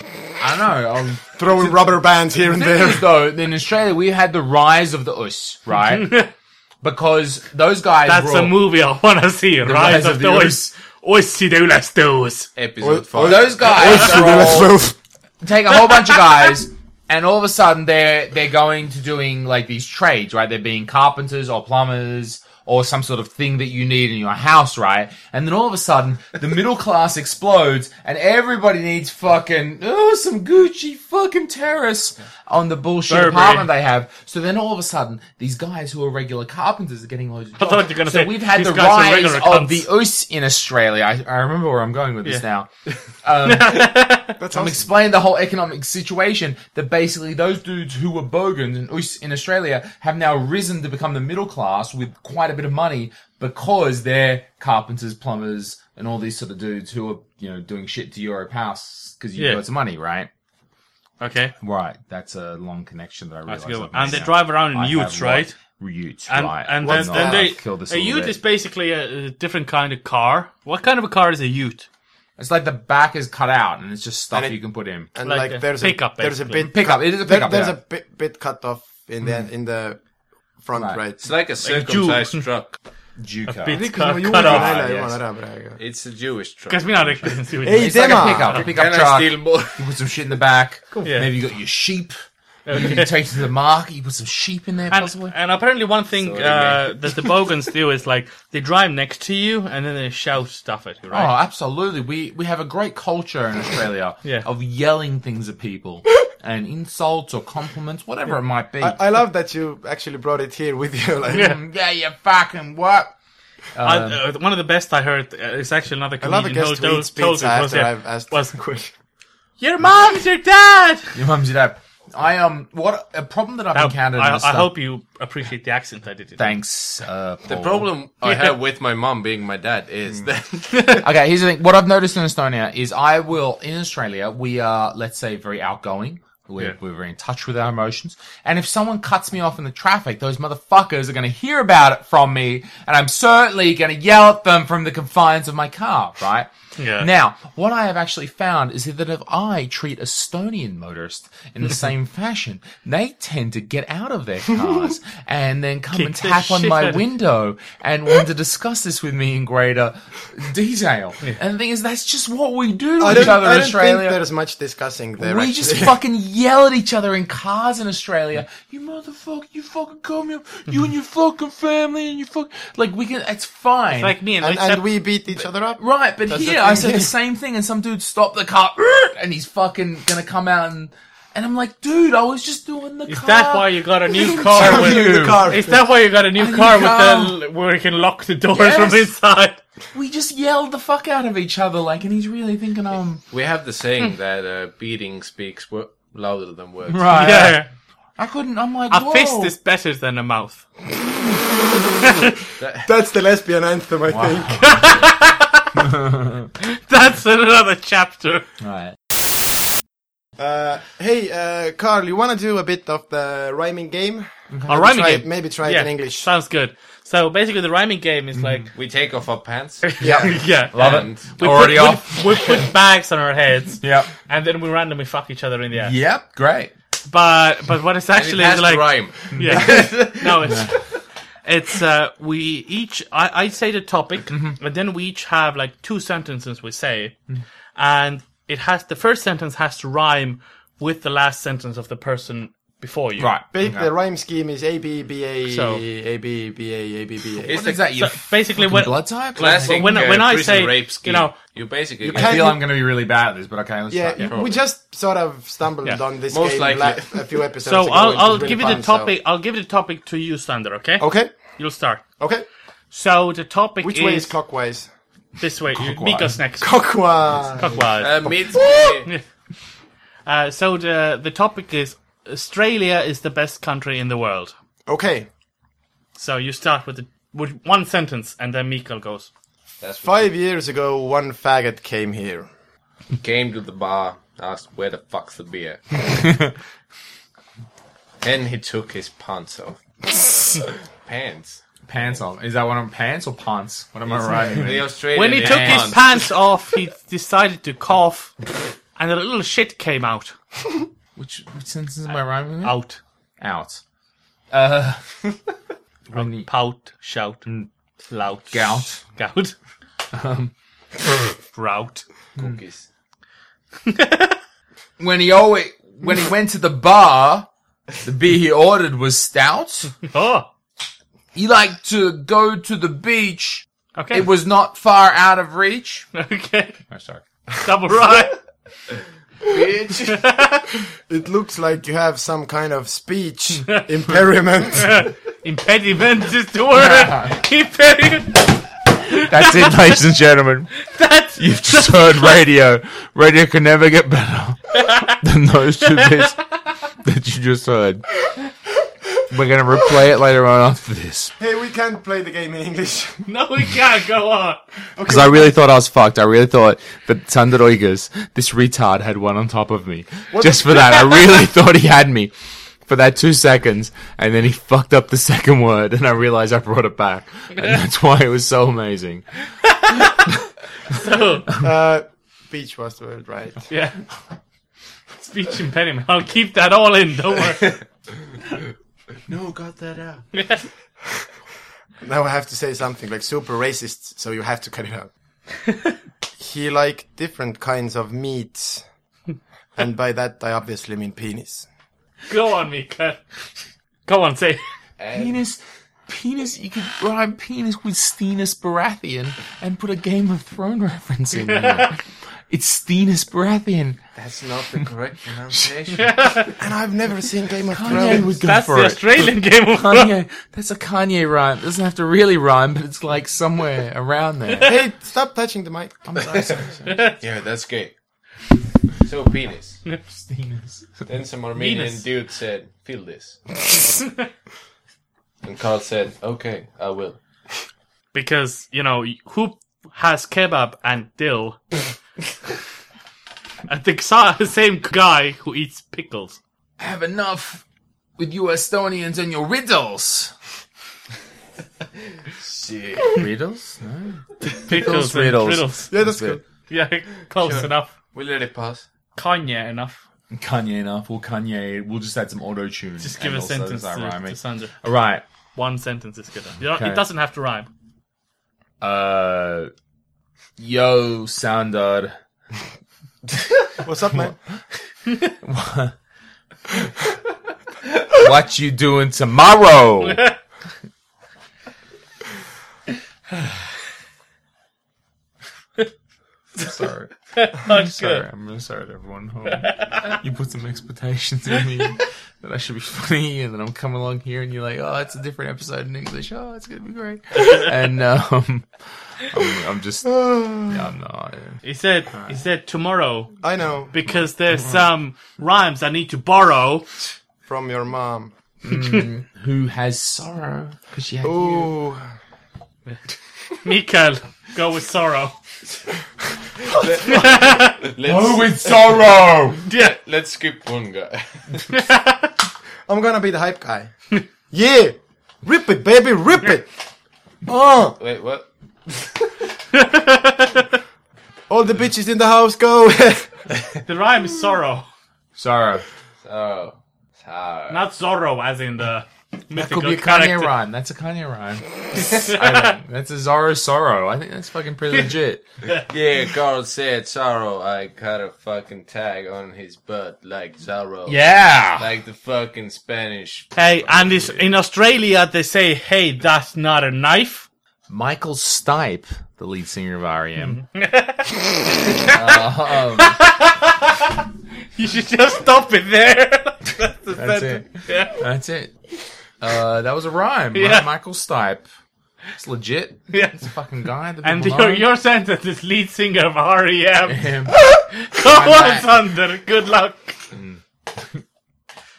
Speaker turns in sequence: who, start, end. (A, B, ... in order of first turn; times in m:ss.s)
0:00.4-0:06.1 A
0:01.4-0:03.1 B
0:05.9-0:06.3 C
0:06.8-0:08.6 A
0:08.0-0:12.5 C
0:09.6-0:10.7 A
0:12.6-0:14.6 D
0:12.8-0:14.9 B
0:13.2-0:14.8 A
0:15.4-0:42.7 A
0:33.1-0:33.7 C
0:37.6-0:39.9 C
0:43.2-1:00.3 A
0:43.4-0:44.4 C
0:44.4-0:44.8 B
0:59.4-0:59.6 C
1:01.2-1:01.5 C
1:01.6-1:08.4 A
1:03.5-1:05.5 C
1:06.3-1:11.9 C
1:06.8-1:07.5 B
1:12.4-1:15.1 A
1:14.3-1:14.6 B
1:15.1-1:20.0 B
1:15.2-1:16.7 C
1:16.6-1:17.8 A
1:20.6-1:21.2 B
1:20.7-1:21.0 A
1:21.2-1:22.8 D
1:21.6-1:22.4 C
1:23.2-1:23.8 A
1:23.5-1:24.8 C
1:23.7-1:25.8 B
1:24.3-1:25.1 A
1:25.8-1:27.3 D
1:26.7-1:28.6 C
1:27.6-1:28.6 B
1:27.7-1:32.1 A
1:28.5-1:29.8 D
1:31.0-1:31.3 C
1:32.6-1:33.1 C
1:32.7-1:35.3 A
1:34.9-1:41.3 C
1:36.2-1:37.0 D
1:41.1-1:49.0 A
1:48.8-1:51.5 B
1:51.3-1:53.1 A
1:51.3-1:51.6 C
1:53.7-1:54.2 A
1:53.8-1:58.5 C
1:56.2-1:58.9 B
1:59.6-2:01.1 C
2:01.1-2:04.7 A
2:03.7-2:06.6 C
2:06.4-2:07.9 A
2:07.5-2:11.0 D
2:08.2-2:08.5 C
2:10.7-2:11.0 C
2:11.0-2:44.2 A
2:26.8-2:27.1 C
2:35.9-2:37.0 C
2:43.0-2:45.9 B
2:45.2-2:54.2 A
2:53.9-2:54.8 C
2:54.4-2:57.1 B
2:55.8-3:05.6 A
3:03.1-3:09.6 C
3:04.5-3:05.8 B
3:06.3-3:07.4 A
3:08.5-3:09.1 A
3:09.9-3:13.2 A
3:13.3-3:17.4 D
3:16.9-3:17.6 A
3:17.1-3:17.7 C
3:18.2-3:19.5 A
3:18.9-3:20.6 C
3:22.6-3:22.9 D
3:22.8-3:24.9 B
3:24.1-3:24.9 A
3:24.6-3:25.8 C
3:25.8-3:26.5 A
3:26.6-3:28.4 C
3:28.6-3:29.0 A
3:30.4-3:36.3 B
3:34.7-3:38.7 C
3:38.3-3:38.7 A
3:38.7-3:39.9 D
3:39.8-3:46.0 C
3:40.0-3:40.4 B
3:40.0-3:42.6 A
3:40.7-3:41.3 D
3:43.8-3:44.1 A
3:45.8-3:46.7 A
3:47.0-3:50.8 C
3:48.1-3:50.5 D
3:49.4-3:49.8 A
3:50.4-3:50.7 A
3:51.4-3:57.1 C
3:54.3-3:54.6 A
3:57.8-4:03.3 C
4:03.2-4:03.9 A
4:03.5-4:07.6 B
4:05.5-4:05.8 C
4:07.4-4:07.8 D
4:07.4-4:10.0 A
4:07.9-4:11.4 C
4:09.4-4:12.5 D
4:12.0-4:12.6 B
4:12.1-4:14.3 A
4:13.9-4:19.1 B
4:14.2-4:14.6 D
4:16.3-4:17.3 D
4:17.6-4:22.1 C
4:21.0-4:21.3 B
4:22.2-4:22.4 B
4:22.9-4:24.3 C
4:23.8-4:24.9 B
4:25.4-4:26.9 C
4:25.7-4:26.3 A
4:26.6-4:27.9 B
4:27.6-4:28.3 C
4:28.0-4:29.1 D
4:28.5-4:29.0 B
4:30.2-4:34.5 C
4:34.9-4:35.3 B
4:36.2-4:39.3 C
4:39.8-4:40.3 D
4:40.0-4:42.5 B
4:43.2-4:46.0 D
4:48.2-4:49.8 D
4:50.4-4:51.6 D
4:51.9-4:56.0 A
4:54.1-4:56.3 D
4:55.1-4:58.4 C
4:58.9-5:00.4 C
5:01.2-5:02.8 A
5:02.6-5:03.0 C
5:03.4-5:03.8 A
5:04.5-5:05.2 A
5:06.1-5:06.5 A
5:06.1-5:07.5 C
5:08.0-5:09.5 C
5:08.5-5:09.0 A
5:10.1-5:10.5 A
5:11.5-5:12.0 C
5:12.4-5:12.8 D
5:13.9-5:14.4 C
5:15.0-5:17.5 A
5:18.0-5:20.0 A
5:20.1-5:20.5 C
5:21.3-5:26.1 A
5:24.0-5:24.3 C
5:26.1-5:26.8 C
5:26.9-5:27.2 A
5:27.6-5:28.4 C
5:29.5-5:30.3 D
5:30.0-5:30.7 C
5:31.1-5:35.1 B
5:34.9-5:39.7 C
5:36.7-5:37.4 A
5:39.1-5:40.7 A
5:40.8-5:42.4 C
5:41.4-5:46.4 A
5:44.7-5:45.2 C
5:45.8-5:46.3 C
5:47.0-5:48.0 A
5:49.3-5:51.3 A
5:51.4-5:53.2 B
5:53.2-5:54.6 C
5:55.0-5:55.5 B
5:55.0-6:02.3 A
6:00.3-6:01.2 B
6:02.8-6:09.2 A
6:09.6-6:10.2 C
6:10.9-6:11.5 C
6:11.6-6:13.6 B
6:13.7-6:14.0 C
6:15.2-6:17.8 C
6:19.3-6:20.3 D
6:20.3-6:20.6 C
6:22.0-6:25.1 B
6:25.7-6:25.9 C
6:26.4-6:28.8 B
6:29.8-6:31.7 B
6:32.3-6:33.2 C
6:34.0-6:34.6 C
6:35.0-6:35.4 D
6:35.1-6:44.0 A
6:41.3-6:41.9 C
6:44.1-6:46.5 D
6:45.9-6:46.5 C
6:46.6-6:48.3 B
6:47.7-6:54.8 A
6:48.0-6:50.1 C
6:54.6-6:56.0 B
6:56.0-6:57.1 A
6:56.2-6:56.6 D
6:56.8-6:57.2 C
6:57.2-6:57.9 D
6:59.0-6:59.8 D
7:00.0-7:01.0 A
7:01.1-7:03.4 D
7:01.5-7:02.0 C
7:03.9-7:04.3 C
7:05.4-7:07.2 D
7:08.1-7:11.6 C
7:13.7-7:16.4 C
7:16.8-7:17.6 A
7:18.2-7:20.3 A
7:22.4-7:23.2 D
7:23.1-7:26.4 A
7:24.5-7:25.9 C
7:25.9-7:26.4 B
7:26.7-7:27.9 C
7:27.4-7:28.8 D
7:29.1-7:30.0 C
7:30.3-7:35.2 A
7:33.0-7:34.7 C
7:35.5-7:37.7 C
7:36.6-7:37.0 A
7:38.8-7:39.7 A
7:40.6-7:42.1 A
7:43.8-7:44.4 B
7:45.2-7:45.9 A
7:48.1-7:50.3 A
7:50.0-7:50.4 C
7:56.6-8:11.6 A
7:57.3-7:58.2 C
7:59.6-8:00.1 C
8:07.3-8:07.7 C
8:10.0-8:10.8 B
8:11.6-8:13.4 C
8:13.4-8:13.9 B
8:13.9-8:16.9 C
8:14.0-8:14.8 A
8:17.4-8:18.3 B
8:18.6-8:21.7 A
8:18.7-8:19.0 C
8:21.2-8:22.0 B
8:23.6-8:25.4 C
8:26.7-8:29.0 D
8:27.0-8:27.8 C
8:28.0-8:29.6 A
8:29.6-8:29.9 C
8:29.7-8:31.7 D
8:31.7-8:32.3 C
8:32.9-8:33.9 B
8:34.5-8:36.7 B
8:37.4-8:38.0 B
8:38.0-8:38.5 D
8:39.7-8:40.7 C
8:41.5-8:43.5 B
8:43.8-8:44.9 C
8:45.4-8:45.8 A
8:46.2-8:47.8 D
8:47.7-8:50.6 C
8:49.5-8:55.4 A
8:52.0-8:52.8 C
8:55.9-9:04.4 D
9:01.0-9:01.8 A
9:03.5-9:07.5 C
9:07.9-9:10.6 A
9:10.5-9:13.7 C
9:12.0-9:13.2 A
9:14.8-9:18.2 C
9:17.1-9:18.7 A
9:19.4-9:21.6 A
9:20.5-9:20.9 C
9:22.4-9:24.9 A
9:23.1-9:23.4 C
9:24.2-9:30.2 C
9:27.0-9:28.9 A